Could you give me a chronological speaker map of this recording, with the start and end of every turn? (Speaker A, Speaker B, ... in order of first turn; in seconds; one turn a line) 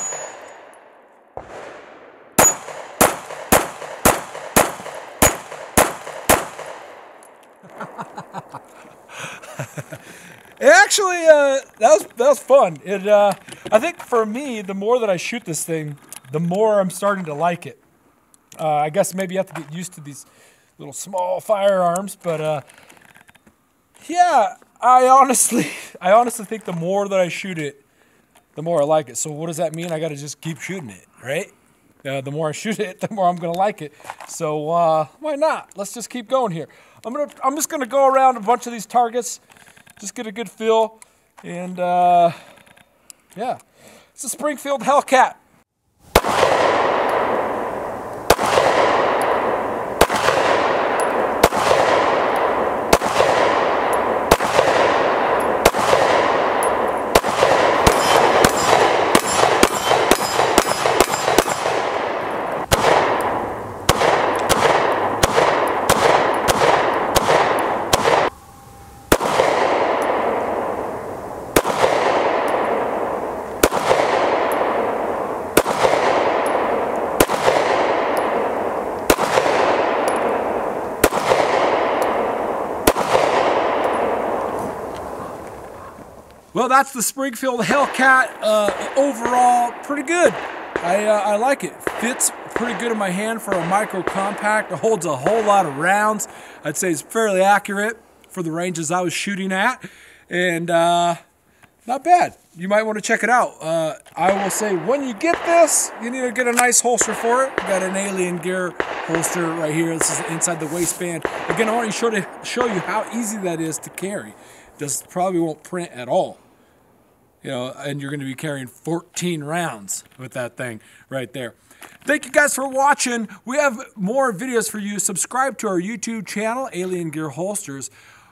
Speaker A: 7.8-8.2
Speaker A: 9.2-10.0
Speaker A: 10.6-17.8
Speaker A: 18.6-22.6
Speaker A: 24.0-27.8
Speaker A: 28.5-39.4
Speaker A: 40.0-42.4
Speaker A: 43.3-43.6
Speaker A: 44.1-45.4
Speaker A: 86.5-101.2
Speaker A: 101.8-116.4
Speaker A: 117.4-127.9